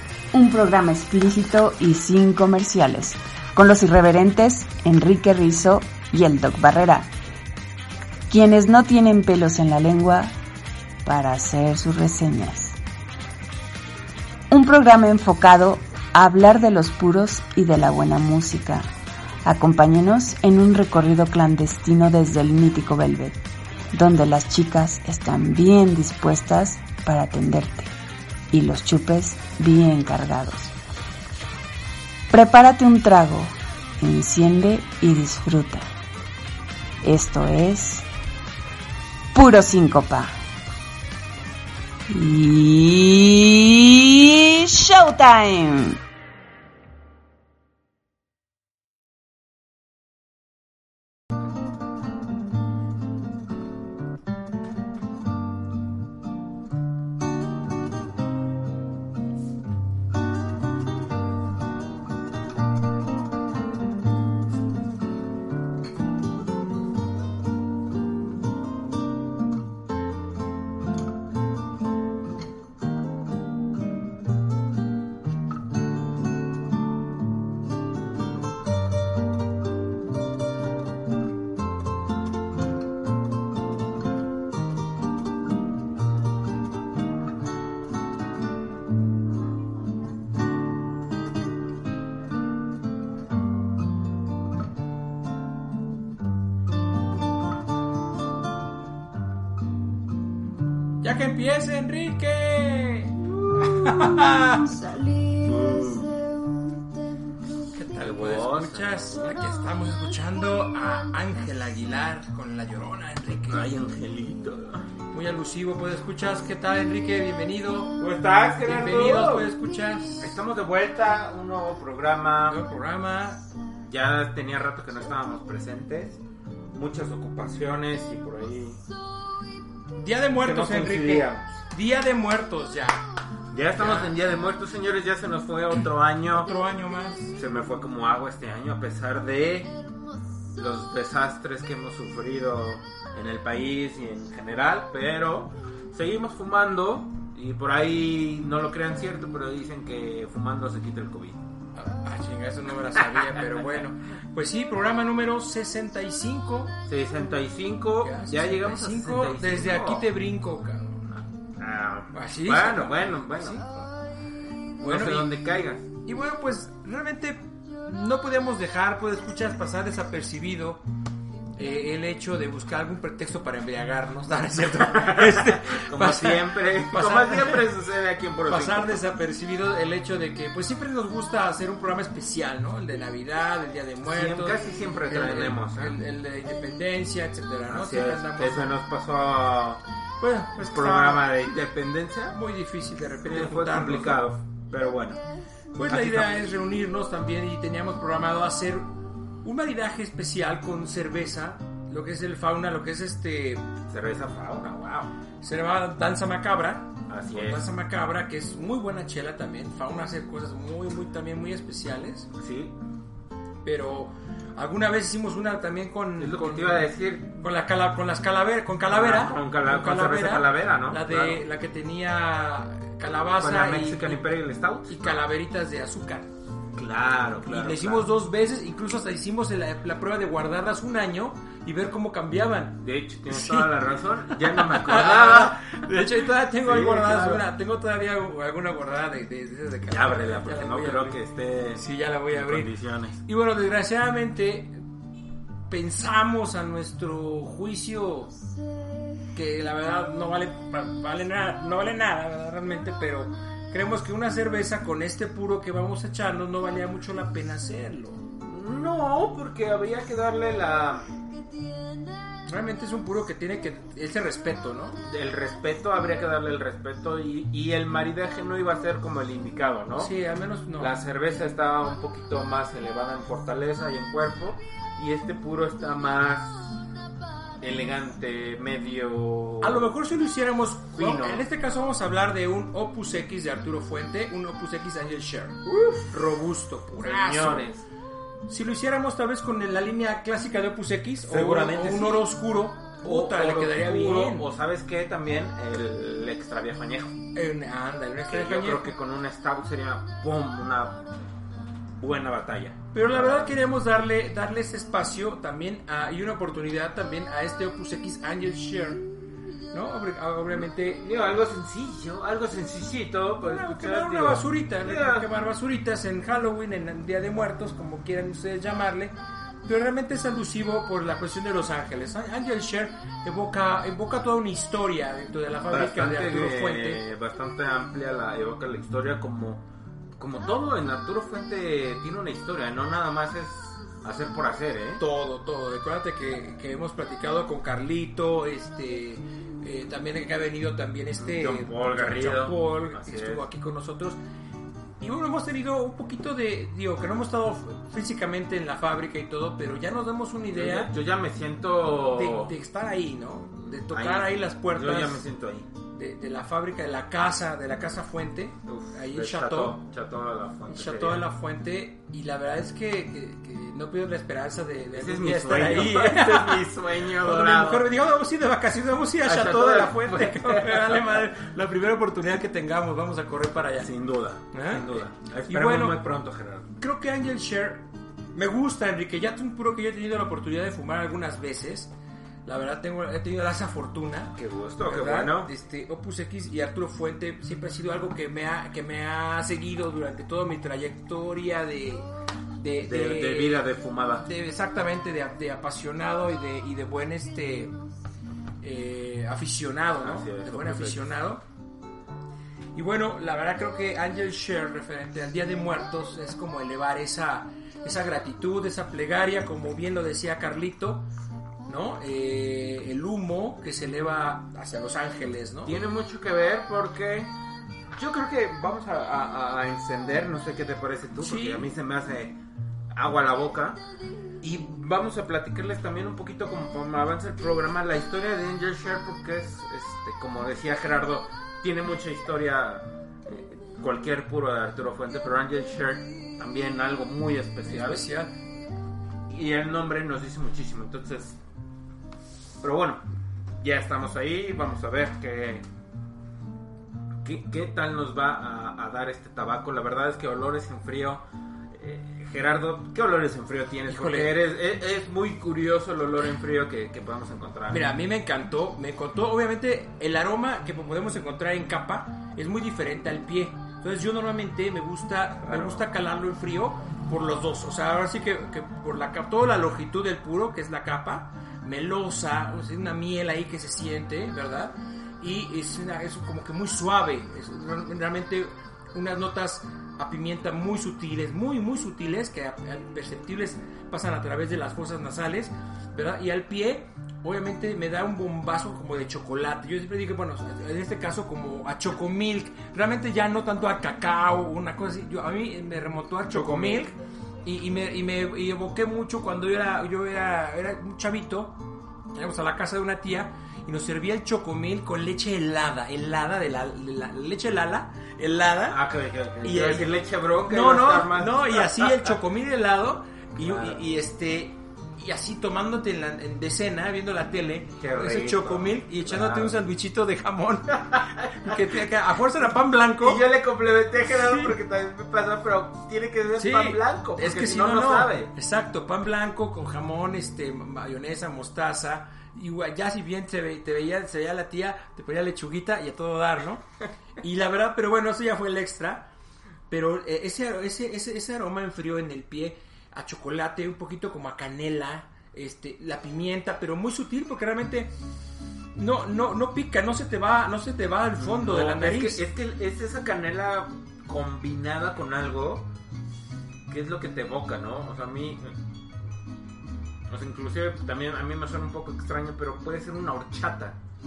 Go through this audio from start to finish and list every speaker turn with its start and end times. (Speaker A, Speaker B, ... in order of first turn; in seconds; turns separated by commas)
Speaker A: 0.3-7.1, Speaker A: 8.3-10.3, Speaker A: 11.1-12.8, Speaker A: 14.5-18.9, Speaker A: 19.4-23.4, Speaker A: 23.9-27.9, Speaker A: 28.5-30.7, Speaker A: 32.3-35.9, Speaker A: 37.0-38.1, Speaker A: 39.3-40.4, Speaker A: 42.1-46.0, Speaker B: 101.0-104.7, Speaker C: 105.4-106.1, Speaker B: 107.7-113.7, Speaker C: 108.0-109.4, Speaker C: 113.5-114.9, Speaker B: 115.1-118.0, Speaker C: 118.0-119.5, Speaker B: 118.6-120.4, Speaker C: 120.2-122.6, Speaker B: 122.5-123.5, Speaker C: 123.9-126.2, Speaker C: 126.7-128.8, Speaker B: 130.0-133.1, Speaker C: 130.4-131.5, Speaker C: 133.5-136.5, Speaker B: 133.8-134.1, Speaker B: 136.3-137.3, Speaker C: 137.3-139.7, Speaker C: 140.6-151.4, Speaker B: 151.8-156.8, Speaker C: 153.0-153.8, Speaker C: 156.9-160.1, Speaker B: 158.0-161.1, Speaker C: 161.1-163.9, Speaker B: 162.1-163.7, Speaker B: 164.8-165.3, Speaker C: 164.8-165.9, Speaker B: 166.1-170.8, Speaker B: 171.6-177.7, Speaker C: 174.8-179.0, Speaker B: 178.5-188.7, Speaker C: 184.1-186.0, Speaker C: 187.7-189.8, Speaker B: 190.2-191.3, Speaker C: 190.7-192.4, Speaker B: 192.3-194.3, Speaker C: 193.3-195.2, Speaker B: 195.8-198.9, Speaker C: 195.9-196.4, Speaker B: 199.4-203.7, Speaker C: 203.9-205.1, Speaker B: 205.4-212.3, Speaker C: 207.1-207.7, Speaker C: 212.4-212.8, Speaker B: 213.6-224.3, Speaker C: 216.2-217.3, Speaker C: 218.9-221.4, Speaker C: 223.4-225.2, Speaker B: 224.9-226.3, Speaker C: 226.8-228.1, Speaker B: 227.4-233.7, Speaker C: 232.8-236.1, Speaker B: 234.3-241.2, Speaker C: 236.6-237.4, Speaker C: 239.9-243.2, Speaker B: 241.8-242.7, Speaker B: 243.2-244.8, Speaker B: 245.7-248.3, Speaker B: 249.3-258.2, Speaker C: 258.4-261.1, Speaker B: 262.5-265.0, Speaker C: 265.0-270.1, Speaker B: 269.9-270.9, Speaker C: 270.8-276.8, Speaker C: 277.6-279.9, Speaker B: 279.6-287.7, Speaker C: 280.9-281.4, Speaker C: 285.7-286.2, Speaker C: 286.9-287.9, Speaker B: 288.5-294.5, Speaker C: 291.2-292.3, Speaker C: 293.0-297.2, Speaker B: 297.3-298.9, Speaker C: 298.3-301.0, Speaker C: 302.0-303.6, Speaker B: 302.9-309.1, Speaker B: 309.7-311.0, Speaker C: 310.6-315.3, Speaker B: 313.4-327.0, Speaker C: 325.7-329.7, Speaker C: 330.2-335.0, Speaker B: 335.0-344.2, Speaker C: 341.2-343.4, Speaker B: 345.0-350.9, Speaker C: 350.5-352.5, Speaker B: 352.1-355.3, Speaker C: 353.6-355.7, Speaker B: 355.9-359.8, Speaker C: 358.7-361.3, Speaker B: 360.7-373.9, Speaker C: 364.9-367.9, Speaker C: 369.2-371.2, Speaker C: 373.8-376.7, Speaker B: 374.5-376.0, Speaker B: 376.8-381.9, Speaker B: 382.4-393.6, Speaker C: 384.4-385.5, Speaker C: 392.8-394.3, Speaker B: 394.2-397.8, Speaker B: 398.6-401.4, Speaker C: 400.0-401.1, Speaker B: 402.7-411.1, Speaker B: 411.6-415.8, Speaker C: 415.7-417.3, Speaker C: 417.9-422.4, Speaker B: 421.2-421.7, Speaker C: 422.9-423.8, Speaker C: 424.4-438.1, Speaker B: 437.7-438.3, Speaker C: 439.3-441.4, Speaker C: 442.6-443.0, Speaker C: 443.6-445.7, Speaker C: 447.2-457.8, Speaker B: 453.9-454.4, Speaker B: 457.7-501.6, Speaker C: 465.4-465.8, Speaker C: 496.3-496.9, Speaker B: 502.1-508.8, Speaker C: 508.7-512.1, Speaker B: 509.4-509.9, Speaker B: 510.4-523.2, Speaker C: 513.4-513.8, Speaker C: 517.8-519.6, Speaker C: 520.9-521.7, Speaker C: 523.0-528.3, Speaker B: 524.0-524.6, Speaker B: 526.4-536.6, Speaker B: 537.2-539.1, Speaker B: 539.7-548.0, Speaker B: 548.8-552.2, Speaker C: 551.2-555.7, Speaker C: 556.7-558.5, Speaker C: 560.1-563.8